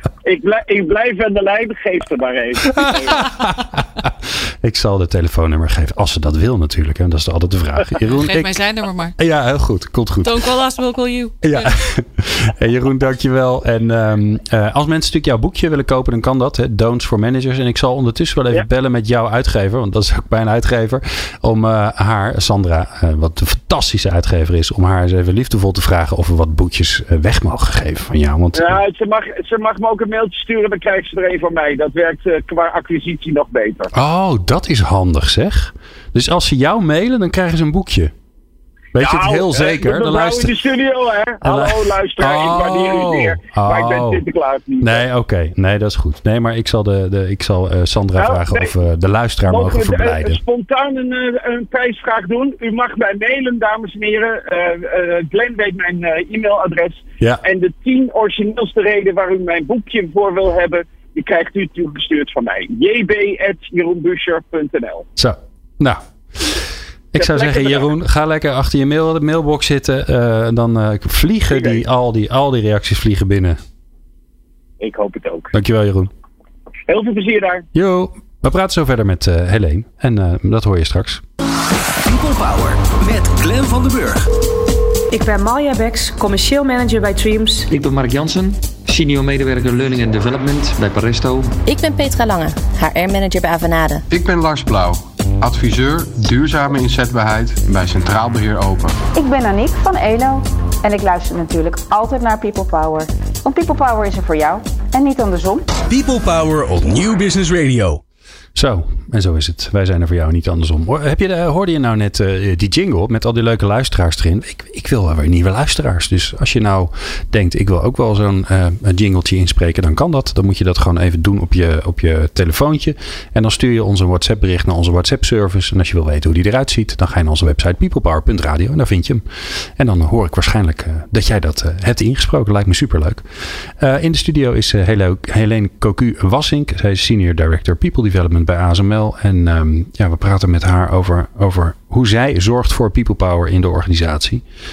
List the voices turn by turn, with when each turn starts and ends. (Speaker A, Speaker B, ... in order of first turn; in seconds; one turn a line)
Speaker A: 0.2-3.3
Speaker B: 2.7-8.6
Speaker C: 8.1-9.2
Speaker B: 9.2-10.4
Speaker C: 10.2-11.8
Speaker B: 11.4-28.8
Speaker A: 28.6-33.9
Speaker B: 33.9-38.1
Speaker B: 38.9-40.6
Speaker A: 39.0-45.0
Speaker B: 41.4-44.2
Speaker B: 44.8-50.4
Speaker A: 48.2-48.7
Speaker A: 49.5-65.1
Speaker B: 65.2-73.6
Speaker A: 67.2-67.8
Speaker A: 71.5-71.8
Speaker A: 74.8-75.5
Speaker B: 75.5-76.1
Speaker A: 76.9-77.7
Speaker B: 77.7-81.2
Speaker D: 82.0-84.3
Speaker E: 85.1-87.7
Speaker F: 87.7-91.6
Speaker G: 91.7-94.0
Speaker H: 94.1-99.0
Speaker I: 99.1-105.7
Speaker D: 105.9-108.0
Speaker B: 108.5-129.2
Speaker B: 129.8-144.4